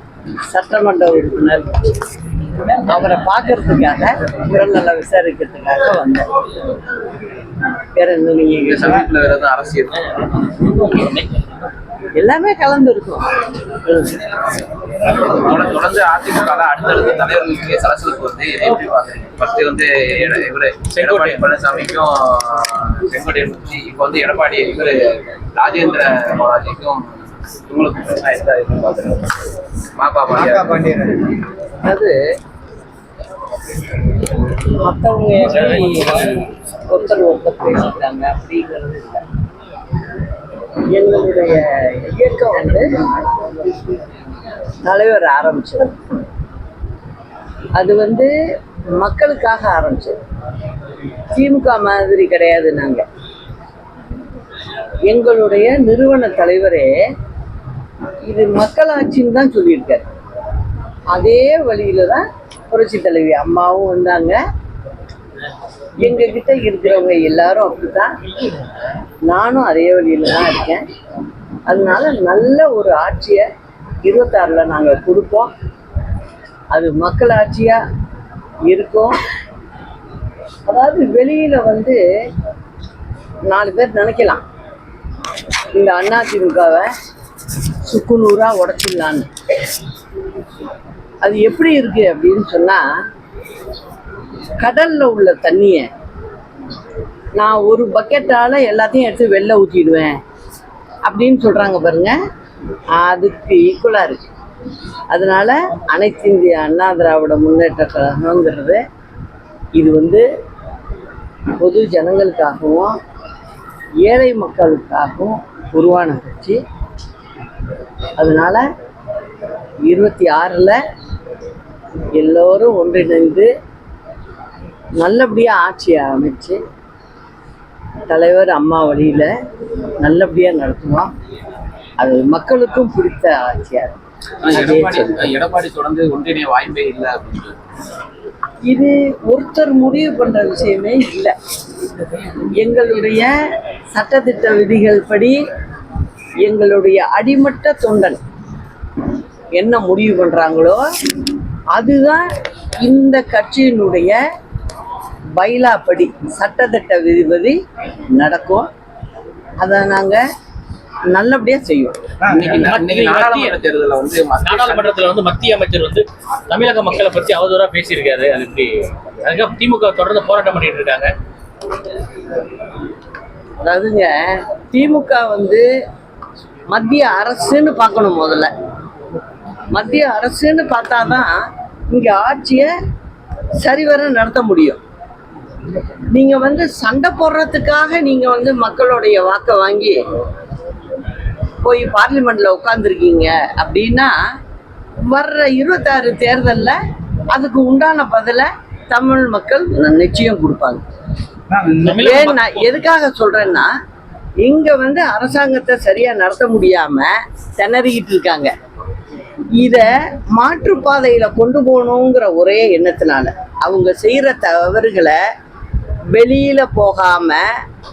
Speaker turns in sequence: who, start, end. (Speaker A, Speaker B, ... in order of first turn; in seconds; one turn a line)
Speaker A: 0.5-1.8
Speaker A: 2.8-6.3
Speaker A: 8.0-9.0
Speaker B: 8.7-10.3
Speaker A: 12.2-13.3
Speaker A: 13.8-14.2
Speaker B: 15.0-27.1
Speaker C: 20.9-21.4
Speaker B: 27.7-29.4
Speaker B: 29.9-31.0
Speaker A: 31.7-32.2
Speaker A: 34.6-39.2
Speaker C: 35.6-36.3
Speaker A: 40.9-43.5
Speaker A: 44.8-46.0
Speaker A: 47.8-48.3
Speaker A: 49.0-50.2
Speaker A: 51.3-53.0
Speaker A: 55.1-56.9
Speaker A: 58.3-60.1
Speaker A: 61.1-64.4
Speaker A: 66.0-68.1
Speaker A: 69.3-70.8
Speaker A: 71.7-73.5
Speaker A: 74.0-75.5
Speaker A: 76.7-77.8
Speaker A: 78.7-79.2
Speaker A: 80.7-82.0
Speaker A: 83.5-84.5
Speaker A: 85.8-86.9
Speaker A: 87.8-89.3
Speaker A: 91.2-92.8
Speaker A: 94.6-95.9
Speaker A: 97.4-100.2
Speaker A: 101.1-102.1
Speaker A: 103.0-104.3
Speaker A: 105.1-108.8
Speaker A: 109.8-110.2
Speaker A: 111.6-113.0
Speaker A: 114.0-116.6
Speaker A: 118.2-118.6
Speaker A: 119.9-120.8
Speaker A: 122.2-123.5
Speaker A: 125.0-126.6
Speaker A: 128.1-129.3
Speaker A: 130.0-131.1
Speaker A: 132.0-133.9
Speaker B: 134.4-137.6
Speaker A: 134.5-135.2
Speaker A: 138.7-141.3
Speaker A: 142.3-143.3
Speaker A: 143.9-145.4
Speaker A: 146.4-148.2
Speaker A: 149.6-150.8
Speaker A: 151.7-152.2
Speaker A: 152.8-154.2
Speaker A: 155.4-157.6
Speaker A: 158.1-158.7
Speaker A: 159.6-160.2
Speaker A: 161.1-162.0
Speaker B: 162.2-165.1
Speaker C: 162.6-163.6
Speaker C: 164.4-171.1
Speaker A: 173.6-175.6
Speaker A: 176.7-178.5
Speaker A: 179.7-181.3
Speaker A: 181.9-182.7
Speaker A: 183.6-184.8
Speaker A: 186.1-190.0
Speaker A: 191.6-194.1
Speaker A: 195.0-196.8
Speaker A: 197.3-200.8
Speaker C: 201.7-202.6
Speaker A: 201.9-203.7
Speaker A: 204.4-208.5
Speaker A: 209.5-215.2
Speaker A: 216.1-217.4